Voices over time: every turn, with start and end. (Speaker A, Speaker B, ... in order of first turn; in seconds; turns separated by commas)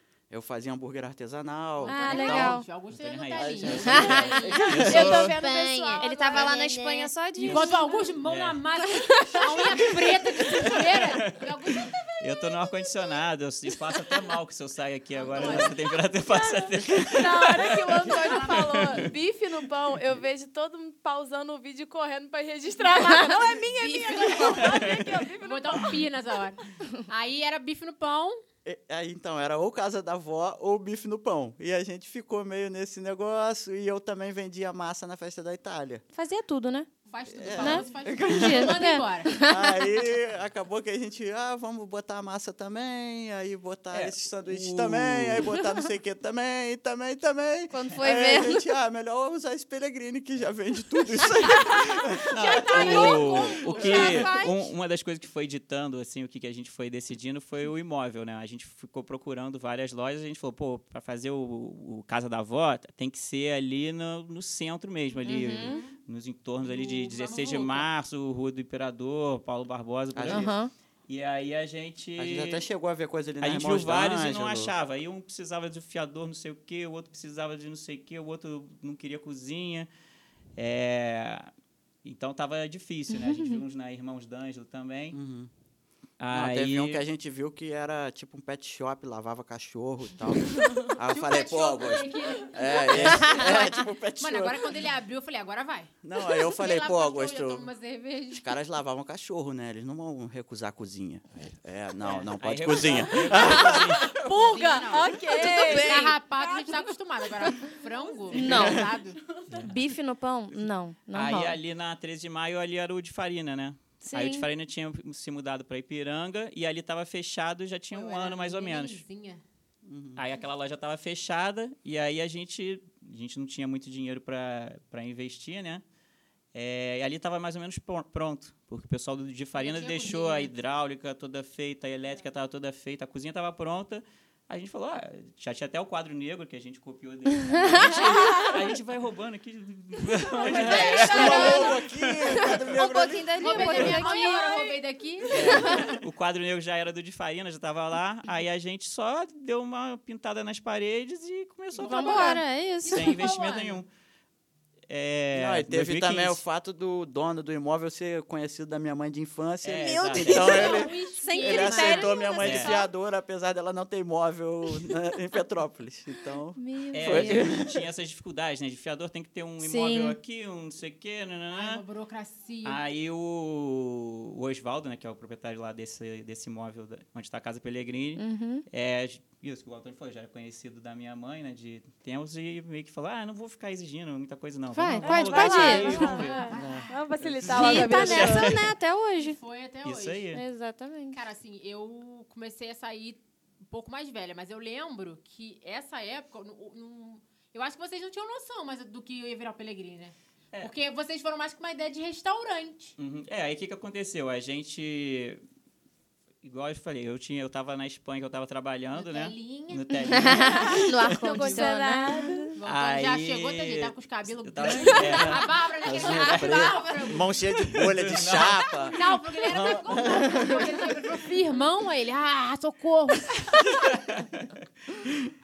Speaker A: 0.3-2.6, Speaker B: 1.8-12.5, Speaker C: 1.9-2.6, Speaker D: 2.9-5.4, Speaker A: 3.4-5.3, Speaker C: 3.9-8.1, Speaker E: 4.8-6.6, Speaker D: 7.4-8.6, Speaker C: 9.0-9.9, Speaker D: 10.6-11.5, Speaker D: 12.2-19.1, Speaker B: 15.2-15.8, Speaker E: 15.4-15.7, Speaker E: 16.3-26.1, Speaker B: 18.1-19.1, Speaker B: 23.8-28.4, Speaker D: 24.6-25.1, Speaker A: 28.6-36.0, Speaker C: 36.1-36.9, Speaker B: 37.1-39.4, Speaker A: 37.3-38.8, Speaker C: 37.6-39.8, Speaker A: 39.4-54.3, Speaker D: 43.9-45.5, Speaker C: 47.7-48.6, Speaker B: 52.3-54.6, Speaker D: 52.3-70.5, Speaker E: 52.9-53.4, Speaker C: 65.3-65.8, Speaker E: 65.6-65.9, Speaker B: 66.6-67.9, Speaker A: 70.1-70.5, Speaker C: 70.3-70.7, Speaker D: 71.1-72.6, Speaker A: 72.2-74.7, Speaker D: 73.4-79.9, Speaker D: 80.6-81.5, Speaker D: 82.0-85.2, Speaker C: 83.3-83.6, Speaker A: 85.1-85.5, Speaker D: 86.2-87.0, Speaker A: 86.3-94.7, Speaker B: 91.0-98.5, Speaker D: 92.9-93.3, Speaker A: 96.0-97.7, Speaker A: 98.3-104.1, Speaker D: 102.0-104.1, Speaker E: 103.3-106.9, Speaker B: 104.2-109.2, Speaker C: 105.3-106.2, Speaker C: 108.3-108.9, Speaker A: 108.4-108.9, Speaker C: 109.6-111.6, Speaker D: 111.1-119.0, Speaker C: 114.0-114.5, Speaker B: 117.9-119.4, Speaker A: 119.8-120.2, Speaker D: 120.2-125.8, Speaker D: 126.5-142.5, Speaker B: 129.6-130.5, Speaker C: 137.5-138.5, Speaker A: 140.5-144.2, Speaker E: 140.6-141.6, Speaker C: 140.6-141.8, Speaker B: 140.7-141.7, Speaker C: 142.4-144.7, Speaker B: 143.4-145.9, Speaker D: 145.3-153.9, Speaker C: 145.5-145.9, Speaker B: 151.7-153.8, Speaker C: 151.8-153.2, Speaker D: 154.9-156.4, Speaker A: 155.3-167.8, Speaker D: 159.6-160.8, Speaker C: 159.8-162.9, Speaker B: 160.3-162.4, Speaker D: 162.4-162.8, Speaker C: 166.6-167.5, Speaker D: 166.9-171.8, Speaker C: 169.6-170.2, Speaker B: 171.5-172.8, Speaker D: 172.6-186.6, Speaker C: 178.2-178.7, Speaker C: 184.7-186.2, Speaker E: 185.0-188.6, Speaker B: 185.4-187.0, Speaker A: 186.6-187.9, Speaker D: 187.4-188.7, Speaker C: 187.5-189.4, Speaker B: 189.2-190.3, Speaker D: 189.8-190.4, Speaker C: 190.3-191.2, Speaker B: 191.1-202.9, Speaker D: 203.0-205.4, Speaker D: 206.4-211.1, Speaker B: 208.9-210.4, Speaker C: 210.0-212.5, Speaker E: 210.3-212.6, Speaker B: 211.4-211.7, Speaker B: 212.6-217.4, Speaker D: 212.7-215.5, Speaker C: 214.9-215.2, Speaker A: 215.8-220.8, Speaker D: 217.7-218.7, Speaker B: 218.8-223.8, Speaker D: 223.7-225.0